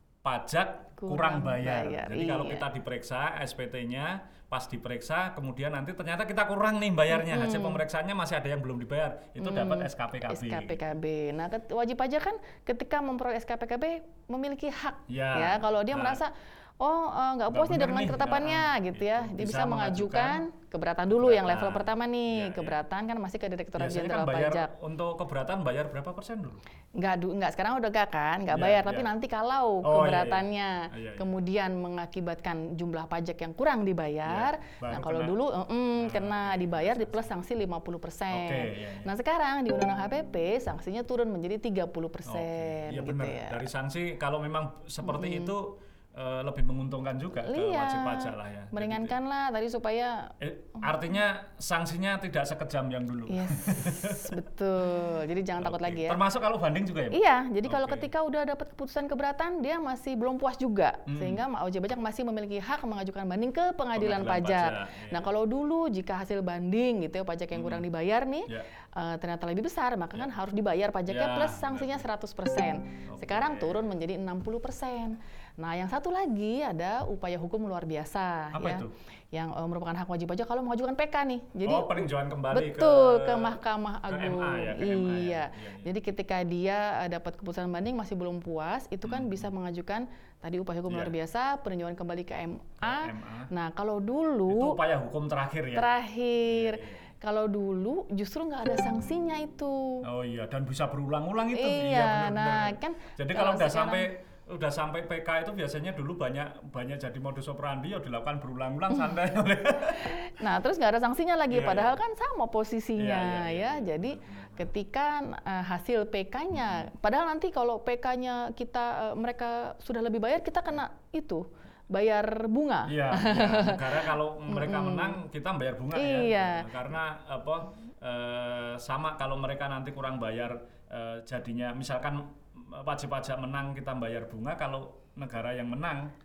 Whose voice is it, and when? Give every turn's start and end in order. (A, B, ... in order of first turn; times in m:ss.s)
0:00.2-0:10.8 A
0:01.0-0:02.7 B
0:07.1-0:07.8 B
0:09.4-0:24.7 B
0:15.1-0:16.2 A
0:17.5-0:20.4 A
0:21.1-0:22.8 A
0:23.8-0:26.6 A
0:27.0-0:43.6 B
0:28.5-0:29.1 A
0:29.8-0:31.3 A
0:34.3-0:35.4 A
0:36.0-0:37.3 A
0:38.3-0:39.1 A
0:42.2-0:49.2 A
0:45.0-0:45.5 B
0:47.4-0:50.9 B
0:50.4-0:54.4 A
0:53.3-0:56.2 B
0:55.6-0:58.1 A
0:57.1-1:34.8 B
1:01.1-1:01.4 A
1:04.0-1:05.3 A
1:07.5-1:07.9 A
1:11.1-1:12.1 A
1:13.1-1:13.8 A
1:18.5-1:18.9 A
1:21.6-1:25.9 A
1:29.0-1:29.5 A
1:30.9-1:31.1 A
1:32.8-1:33.5 A
1:34.5-1:35.9 A
1:35.7-1:40.1 B
1:36.5-1:37.0 A
1:40.0-1:50.2 A
1:41.5-1:44.1 B
1:49.9-2:05.2 B
1:51.5-1:52.0 A
1:53.0-1:54.7 A
1:56.5-1:56.9 A
2:02.9-2:16.2 A
2:05.9-2:06.7 B